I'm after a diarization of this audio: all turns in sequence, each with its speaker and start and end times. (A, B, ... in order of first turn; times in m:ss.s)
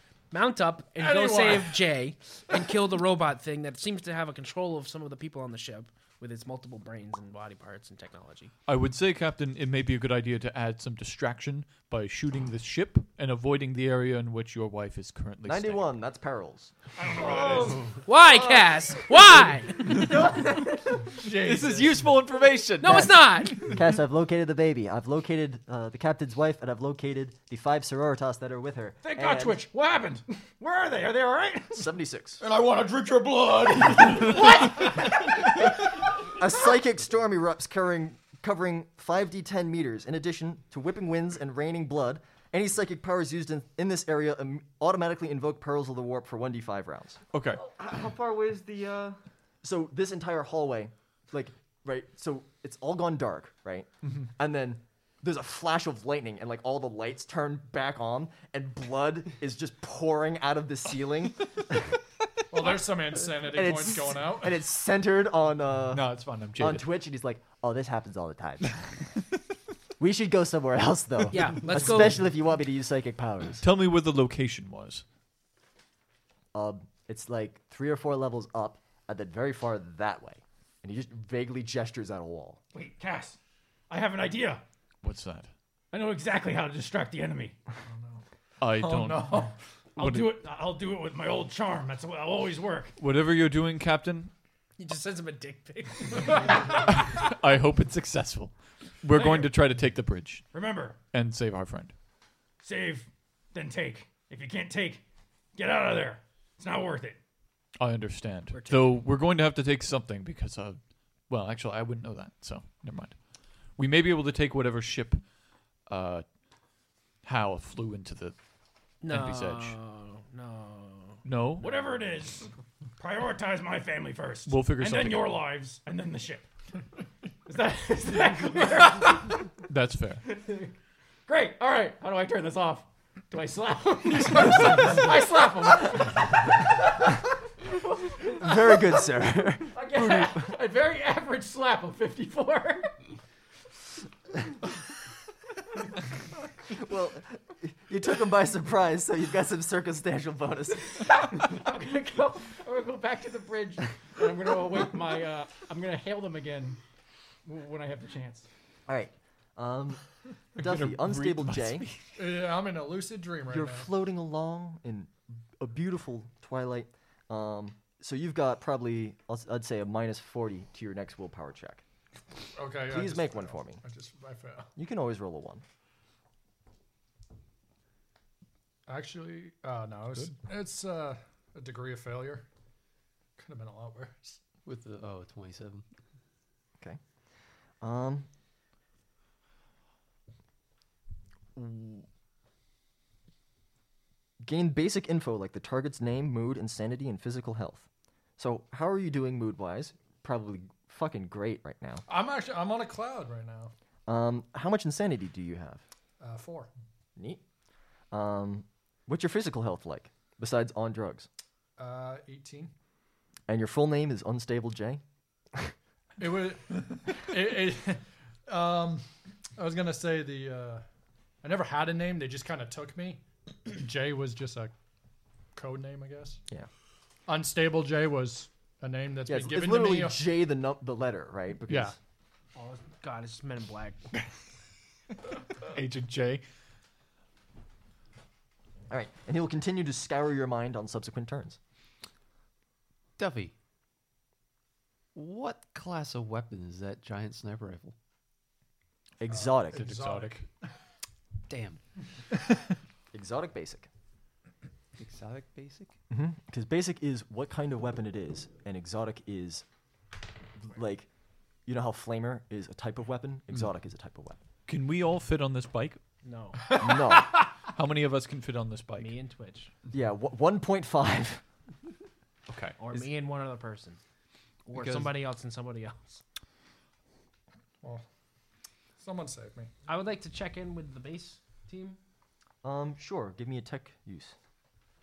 0:00.3-0:08.5 A
0:01.0-0:01.9 B
0:08.6-0:15.9 C
0:15.4-0:16.7 D
0:17.0-0:17.9 E
0:17.3-0:17.8 F
0:18.0-0:20.1 A
0:20.2-0:21.0 F
0:21.2-0:23.7 C
0:21.2-0:22.2 B
0:22.8-0:23.6 A
0:23.0-0:29.6 D
0:29.0-0:31.9 E
0:31.7-0:32.4 D
0:32.4-0:34.4 G
0:34.2-0:35.3 E
0:36.4-0:47.2 D
0:47.3-0:47.7 C
0:47.6-0:49.2 F
0:49.6-1:01.9 D
1:02.5-1:04.6 B
1:03.3-1:08.7 D
1:05.9-1:06.9 C
1:10.0-1:13.6 D
1:11.3-1:12.3 A
1:13.6-1:15.0 C
1:16.5-1:22.6 D
1:22.7-1:23.4 E
1:23.9-1:24.6 E
1:25.0-1:25.5 C
1:25.9-1:27.6 E
1:27.9-1:29.5 B
1:28.6-1:30.3 C
1:30.0-1:32.9 E
1:33.0-1:34.3 C
1:34.8-1:36.8 A
1:36.9-1:40.5 C
1:39.1-1:39.6 E
1:40.5-1:41.0 E
1:41.1-1:41.9 C
1:42.6-1:45.0 E
1:45.5-1:47.2 E
1:47.8-1:55.2 C
1:48.5-1:49.0 A
1:55.8-1:56.3 C
1:57.2-1:58.4 C
1:59.0-2:01.2 A
1:59.1-1:59.8 C
2:01.2-2:01.7 C
2:01.6-2:06.5 E
2:04.4-2:05.4 C
2:07.4-2:09.5 E
2:09.6-2:10.2 C
2:10.2-2:10.7 E
2:11.3-2:16.7 E
2:18.2-2:18.8 E
2:18.3-2:19.8 D
2:19.7-2:22.9 E
2:26.7-2:31.1 D
2:30.9-2:36.8 E
2:37.4-2:38.5 E
2:38.9-2:40.0 D
2:40.6-2:41.9 D
2:40.6-2:42.2 C
2:42.2-2:43.9 B
2:43.5-2:51.8 D
2:52.5-2:54.7 B
2:52.8-2:53.8 D
2:54.8-2:55.6 D
2:58.9-3:02.4 B
3:03.4-3:04.4 B
3:04.6-3:05.8 H
3:07.8-3:08.3 D
3:11.6-3:12.0 D
3:14.4-3:17.8 D
3:18.4-3:22.0 D
3:22.1-3:23.7 B
3:24.1-3:25.8 D
3:26.2-3:26.7 B
3:28.1-3:31.3 D
3:31.8-3:32.7 B
3:33.5-3:35.0 D
3:36.2-3:40.8 B
3:41.4-3:44.7 B
3:45.5-3:46.4 B
3:47.3-3:50.2 B
3:49.3-3:52.0 D
3:51.7-3:51.9 B
3:52.6-3:54.1 A
3:55.6-3:56.4 C
3:58.9-4:01.6 D
4:03.2-4:03.5 H
4:05.1-4:07.9 H
4:09.2-4:09.8 D
4:09.3-4:10.4 B
4:09.7-4:10.4 C
4:11.5-4:11.8 H
4:13.1-4:13.9 D
4:15.0-4:16.0 H
4:16.1-4:19.6 D
4:20.6-4:21.1 D
4:21.6-4:24.4 D
4:24.7-4:26.0 C
4:26.2-4:26.7 A
4:26.7-4:26.9 B
4:26.7-4:27.4 D
4:27.6-4:29.1 C
4:29.0-4:29.7 A
4:29.9-4:31.4 D
4:32.5-4:33.0 C
4:32.8-4:34.0 A
4:34.7-4:36.2 A
4:34.7-4:35.1 H
4:39.0-4:39.7 B
4:39.9-4:42.0 A
4:42.6-4:44.3 D